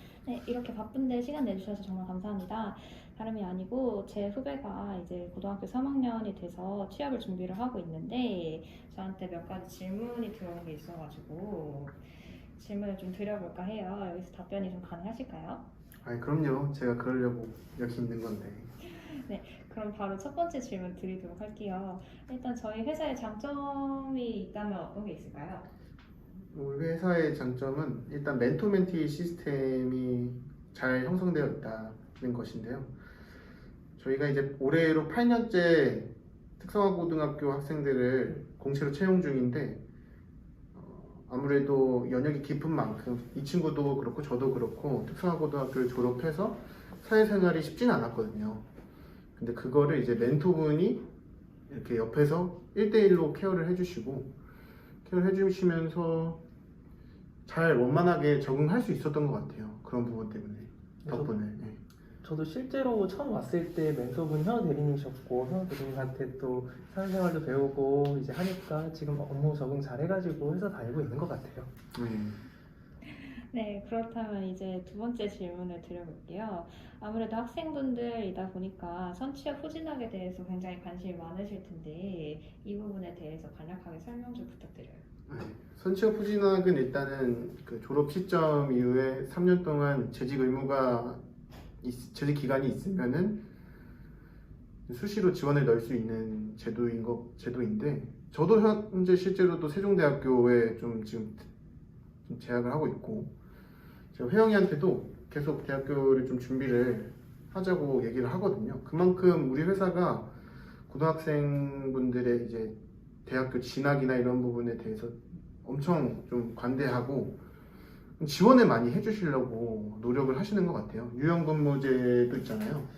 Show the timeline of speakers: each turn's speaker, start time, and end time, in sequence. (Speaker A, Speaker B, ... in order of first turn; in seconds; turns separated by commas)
Speaker A: 0.2-15.7, Speaker B: 16.0-18.7, Speaker A: 18.8-25.7, Speaker B: 26.5-32.9, Speaker B: 34.0-39.8, Speaker B: 40.7-48.7, Speaker B: 49.4-51.0, Speaker B: 51.7-54.3, Speaker B: 55.0-56.4, Speaker B: 57.5-61.8, Speaker C: 61.0-61.3, Speaker C: 62.2-71.7, Speaker B: 71.9-72.4, Speaker A: 73.1-85.0, Speaker B: 85.3-91.2, Speaker B: 91.8-93.4, Speaker B: 94.9-101.5, Speaker B: 102.2-103.3, Speaker B: 104.1-110.3, Speaker B: 110.9-117.4, Speaker B: 118.2-122.9